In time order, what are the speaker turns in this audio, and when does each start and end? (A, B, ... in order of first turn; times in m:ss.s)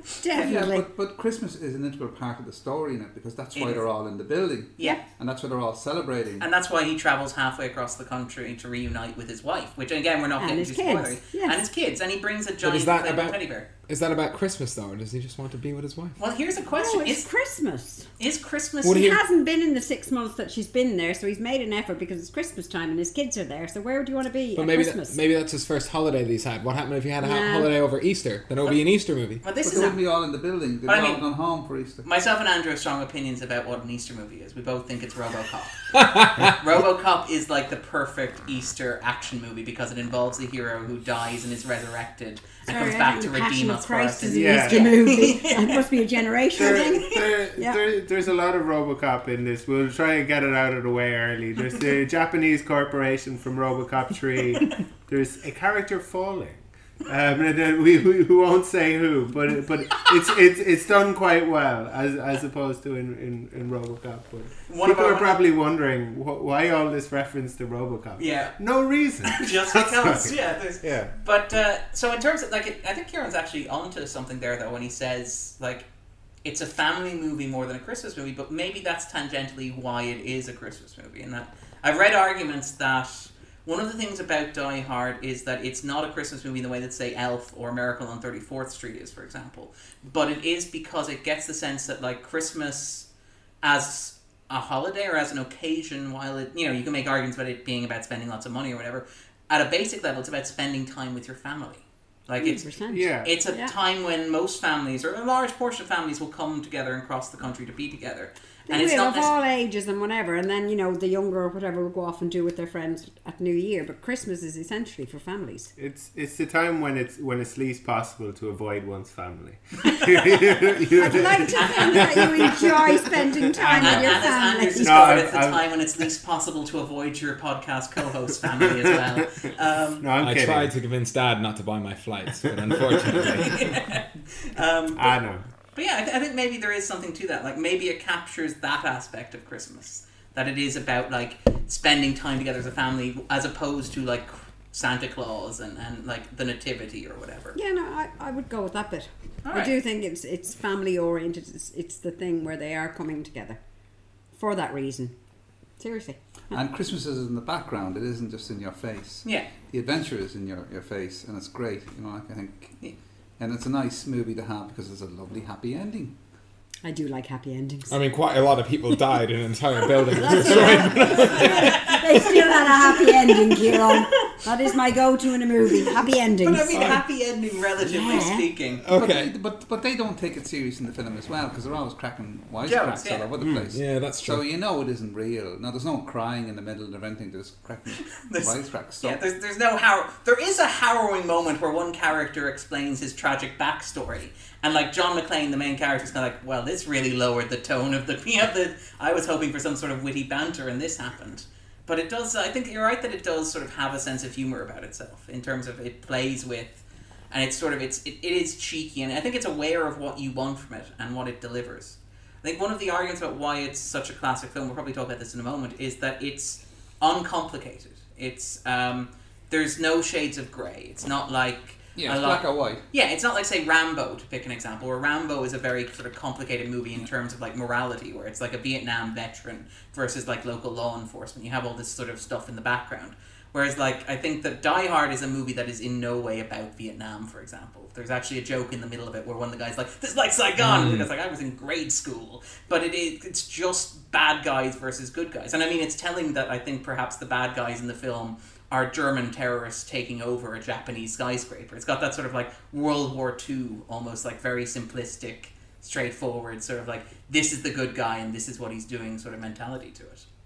0:00.2-0:00.9 A
0:00.4-0:06.4 B
0:03.6-0:03.8 C
0:04.8-0:05.0 C
0:06.4-0:13.7 C
0:10.4-0:11.6 A
0:12.6-0:16.2 D
0:16.2-0:17.2 C
0:16.8-0:18.1 A
0:18.2-0:19.2 C
0:18.8-0:19.2 D
0:18.8-0:25.2 A
0:24.6-0:29.4 D
0:27.2-0:27.7 A
0:29.4-0:30.0 C
0:29.6-0:32.1 B
0:30.9-0:31.2 C
0:32.0-0:45.8 C
0:35.9-0:36.5 D
0:42.7-0:47.8 A
0:44.2-0:45.0 E
0:46.6-1:11.1 E
0:46.6-0:47.2 C
1:04.7-1:05.4 C
1:08.2-1:08.6 C
1:09.2-1:15.9 C
1:16.4-1:33.1 C
1:33.6-1:42.7 C
1:42.4-1:43.8 A
1:42.9-1:43.3 E
1:43.2-1:49.3 C
1:48.7-1:55.7 A
1:55.8-2:04.3 E
2:01.0-2:05.2 A
2:01.5-2:02.6 C
2:03.7-2:10.1 C
2:04.8-2:05.7 E
2:08.8-2:09.2 E
2:10.0-2:10.7 E
2:10.2-2:13.6 D
2:13.3-2:15.2 C
2:15.0-2:15.5 E
2:15.8-2:27.6 C
2:27.6-2:33.6 A
2:29.4-2:29.7 C
2:34.3-2:35.1 A
2:35.8-2:36.5 A
2:36.5-2:42.8 B
2:43.4-2:46.2 B
2:46.8-2:48.0 A
2:47.9-2:51.8 D
2:50.1-2:57.0 A
2:50.3-2:54.4 C
2:56.4-2:58.8 C
2:56.7-2:57.0 D
2:57.8-2:58.5 A
2:58.8-2:59.3 D
2:58.9-3:09.2 B
3:02.6-3:03.3 C
3:03.4-3:03.7 E
3:03.7-3:04.4 D
3:08.1-4:20.2 C
3:42.0-3:42.8 B
4:00.6-4:01.1 D